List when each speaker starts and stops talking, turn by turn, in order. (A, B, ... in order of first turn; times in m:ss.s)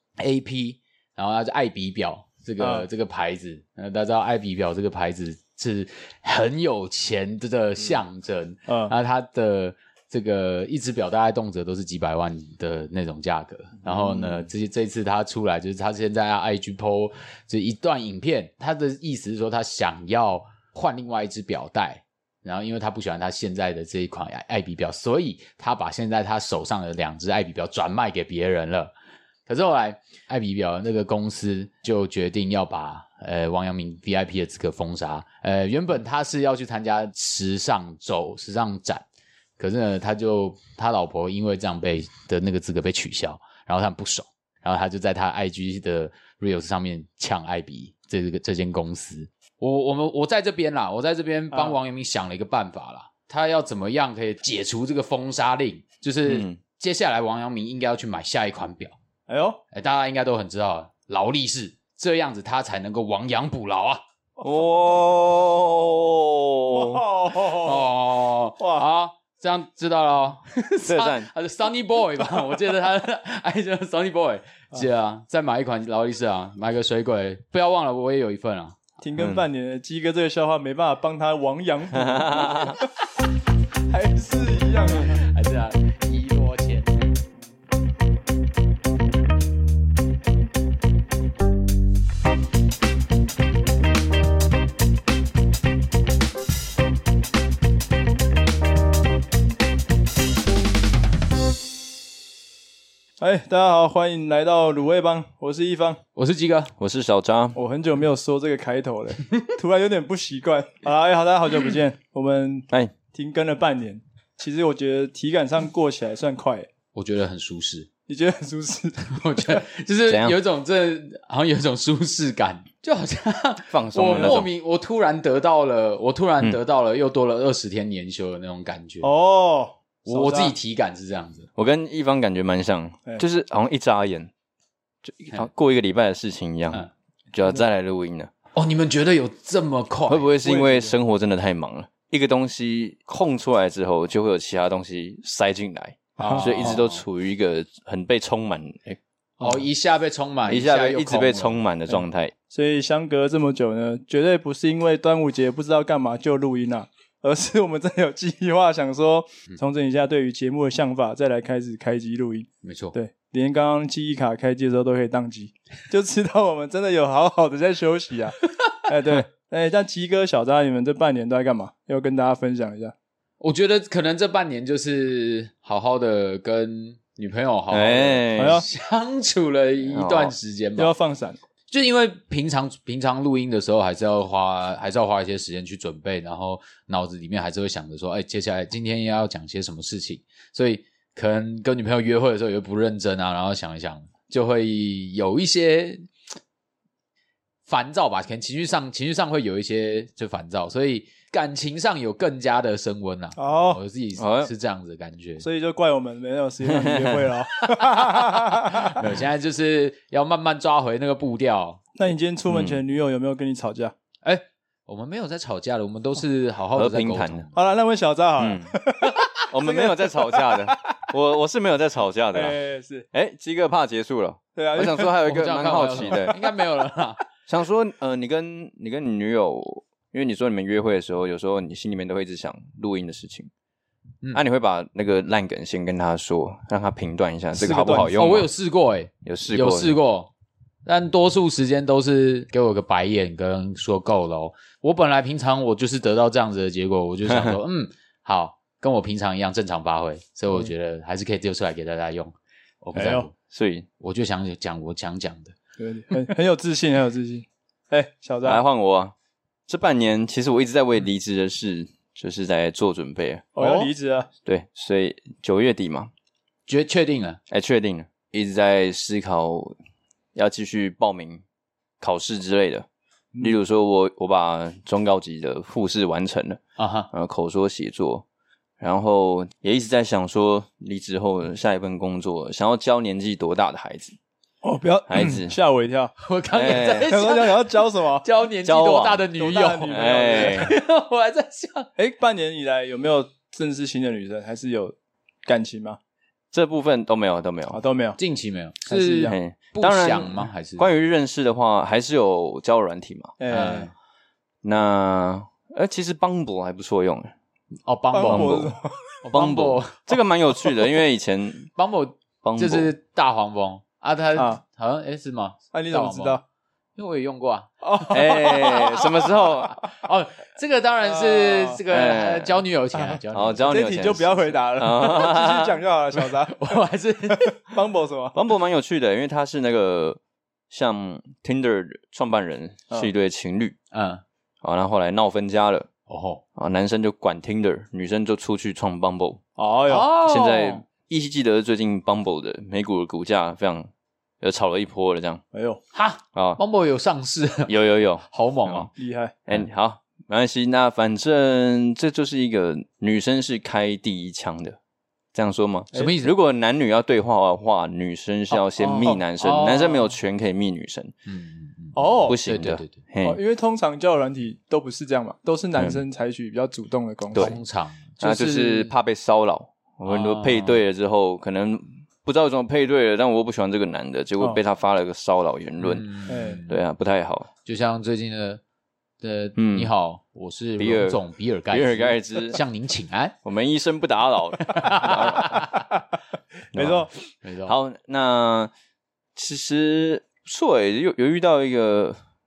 0:00.2-0:28.9 A
0:02.6-0:02.9 B
0:08.7-0:08.9 B
0:13.8-0:14.4 C
0:29.5-0:39.0 A
0:39.6-0:59.0 A
0:51.5-0:51.8 B
0:56.3-0:56.6 C
0:59.3-0:59.6 B
0:59.7-1:04.0 A
1:04.4-1:07.1 C
1:06.7-1:07.9 B
1:07.4-1:18.8 A
1:08.6-1:08.8 B
1:10.9-1:11.3 C
1:19.0-1:22.9 B
1:19.2-1:19.4 C
1:21.9-1:22.8 C
1:23.9-1:25.2 B
1:25.0-1:27.1 A
1:43.2-1:46.0 B
1:46.2-1:46.7 A
1:46.8-1:47.6 C
1:47.6-1:56.7 B
1:56.9-1:57.9 A
1:58.1-1:59.5 B
1:59.1-2:09.1 A
2:00.1-2:00.4 C
2:03.7-2:04.5 C
2:04.1-2:04.4 B
2:09.0-2:10.6 B
2:10.1-2:11.5 A
2:11.6-2:14.3 C
2:15.0-2:18.3 C
2:18.5-2:20.3 A
2:20.1-2:29.0 C
2:20.4-2:20.9 B
2:26.2-2:26.8 B
2:26.2-2:27.0 A
2:29.4-2:31.6 A
2:30.5-2:32.3 C
2:32.5-2:52.9 B
2:42.6-2:43.0 A
2:53.4-3:00.9 A
2:57.7-2:58.6 C
2:58.4-2:58.7 B
2:59.9-3:00.4 C
3:00.8-3:01.4 B
3:01.7-3:16.1 A
3:17.7-3:25.4 A
3:23.4-3:23.8 B
3:24.2-3:24.5 C
3:25.4-3:29.0 B
3:26.7-3:27.2 C
3:27.7-3:31.8 A
3:32.0-3:33.9 B
3:32.5-3:32.8 C
3:34.2-3:37.5 A
3:36.8-3:37.5 C
3:37.6-3:40.9 B
3:38.4-3:38.8 C
3:39.5-3:42.6 C
3:42.3-3:43.1 B
3:43.1-3:46.4 C
3:44.6-3:45.2 B
3:45.3-3:47.2 A
3:47.5-3:53.5 C
3:54.3-3:58.5 C
3:57.5-3:58.3 B
3:58.2-4:00.3 A
3:59.2-4:00.0 C
4:00.8-4:13.3 A
4:07.3-4:07.6 C
4:13.0-4:13.3 B
4:13.5-4:13.9 C
4:14.0-4:15.6 A
4:15.8-4:18.6 B
4:18.4-4:19.1 C
4:19.7-4:23.9 C
4:23.6-4:24.3 B
4:23.6-4:23.9 A
4:24.4-4:26.1 C
4:26.7-4:27.4 A
4:27.5-4:29.8 C
4:30.4-4:31.4 C
4:32.0-4:32.9 C
4:33.4-4:36.6 C
4:36.8-4:37.1 A
4:37.1-4:38.2 C
4:38.8-4:44.2 C
4:44.6-4:46.1 B
4:45.1-4:45.6 C
4:46.2-4:51.9 A
4:46.5-4:47.1 C
4:47.1-4:48.2 B
4:48.6-4:49.3 C
4:49.4-4:50.8 B
4:49.9-4:50.7 C
4:52.0-4:54.9 B
4:55.5-4:56.0 B
4:56.5-4:57.8 C
4:57.7-4:58.2 B
4:58.2-5:00.9 A
4:58.9-4:59.4 B
4:59.3-5:03.4 C
5:03.4-5:03.9 B
5:03.5-5:03.9 A
5:04.6-5:07.3 C
5:07.9-5:10.1 A
5:08.1-5:09.1 B
5:08.3-5:08.7 C
5:09.3-5:11.7 C
5:11.8-5:16.4 A
5:12.4-5:12.9 C
5:14.4-5:14.6 B
5:15.7-5:16.4 B
5:17.0-5:18.8 A
5:17.8-5:19.4 B
5:18.1-5:19.8 C
5:19.8-5:23.7 A
5:21.0-5:21.8 B
5:21.9-5:22.6 C
5:23.0-5:26.8 B
5:23.3-5:25.8 C
5:26.5-5:27.7 A
5:27.3-5:28.4 B
5:28.4-5:33.8 C
5:33.9-5:34.2 A
5:34.6-5:35.9 C
5:36.1-5:36.4 A
5:36.6-5:39.4 C
5:39.6-5:40.1 B
5:39.9-5:40.8 A
5:40.2-5:45.4 C
5:45.5-5:45.8 B
5:45.9-5:47.7 A
5:46.4-5:46.6 C
5:47.7-5:48.9 C
5:48.2-5:48.9 A
5:49.0-5:49.4 B
5:49.5-5:54.8 C
5:55.3-6:01.1 C
5:55.9-5:56.3 A
5:58.8-5:59.2 B
5:59.4-6:00.1 A
6:01.3-6:03.0 A
6:02.0-6:02.4 B
6:02.3-6:03.4 C
6:03.2-6:07.6 B
6:05.8-6:06.0 C
6:07.4-6:08.9 A
6:08.2-6:16.1 C
6:10.1-6:10.8 A
6:15.8-6:16.8 A
6:16.3-6:16.6 B
6:16.7-6:17.5 C
6:17.6-6:18.6 A
6:19.2-6:23.4 A
6:19.6-6:19.9 C
6:20.8-6:22.6 C
6:23.4-6:25.6 C
6:24.7-6:25.8 A
6:26.7-6:27.1 C
6:26.8-6:27.1 B
6:26.8-6:27.7 A
6:27.6-6:28.7 C
6:29.4-6:32.2 C